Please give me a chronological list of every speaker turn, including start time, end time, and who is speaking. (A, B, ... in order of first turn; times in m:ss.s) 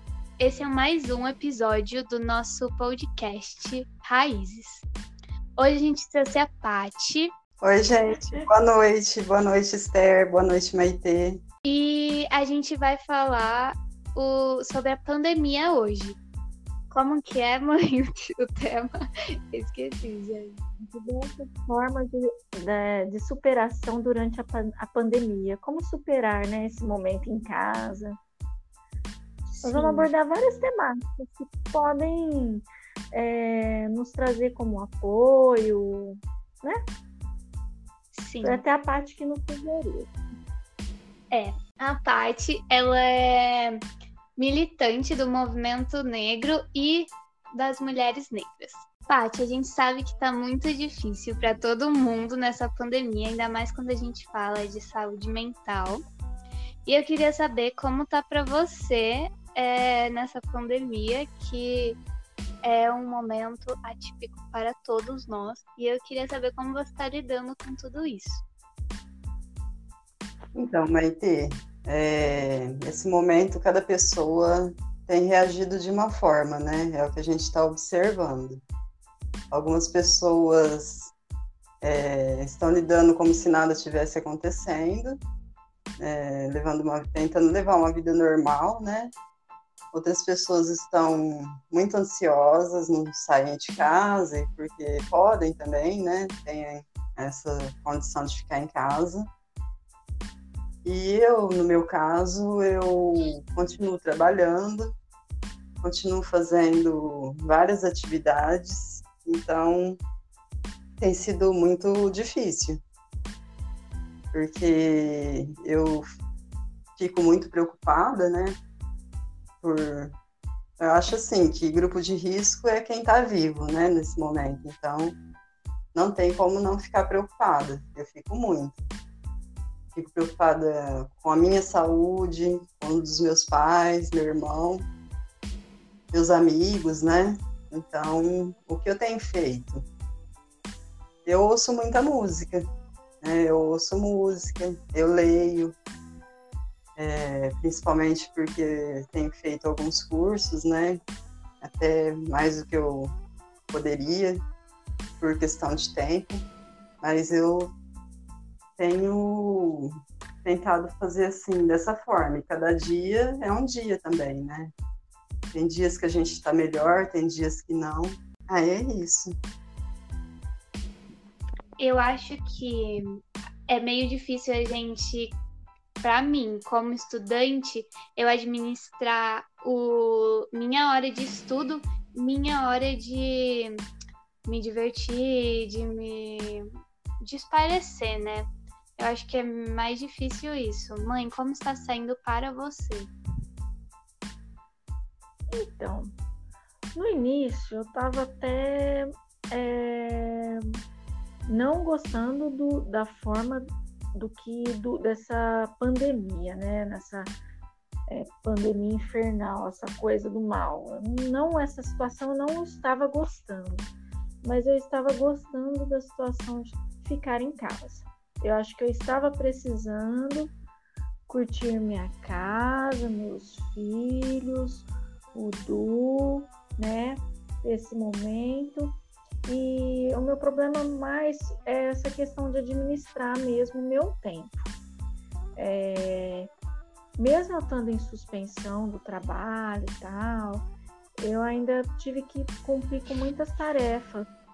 0:00.4-0:04.8 A
0:05.6-0:07.3 A
0:07.6-0:11.4 B
0:11.6-0:16.2 A
0:16.9-0:20.6 A
0:20.8-0:28.2 C
0:29.5-0:30.1 A
0:29.6-0:36.8 C
0:38.1-0:38.6 A
0:38.4-0:40.1 C
0:41.3-0:43.8 A
0:44.4-0:56.0 A
0:56.8-1:02.0 A
1:02.6-1:08.4 A
1:10.5-1:18.6 B
1:19.5-1:21.1 B
1:21.8-1:25.2 B
1:26.0-1:29.1 B
1:29.9-1:39.3 B
1:40.8-1:45.0 B
1:45.8-1:50.0 B
1:51.0-1:52.8 B
1:54.3-1:56.1 B
1:57.0-1:58.6 B
1:59.6-2:00.2 B
2:00.8-2:05.2 B
2:05.9-2:08.9 B
2:09.9-2:14.9 B
2:16.1-2:19.8 B
2:21.2-2:22.7 B
2:23.2-2:25.8 B
2:27.0-2:31.0 B
2:31.6-2:33.1 B
2:33.7-2:34.4 B
2:35.2-2:36.4 B
2:37.0-2:37.7 B
2:38.8-2:44.7 B
2:45.5-2:49.3 B
2:51.8-2:55.4 A
2:56.0-3:03.8 A
3:04.5-3:06.7 A
3:07.2-3:13.1 A
3:15.5-3:16.1 C
3:16.9-3:20.6 C
3:21.5-3:27.3 C
3:28.1-3:33.9 C
3:34.4-3:40.5 C
3:41.3-3:54.7 C
3:55.6-3:56.5 C
3:57.2-4:00.7 C
4:01.2-4:04.3 C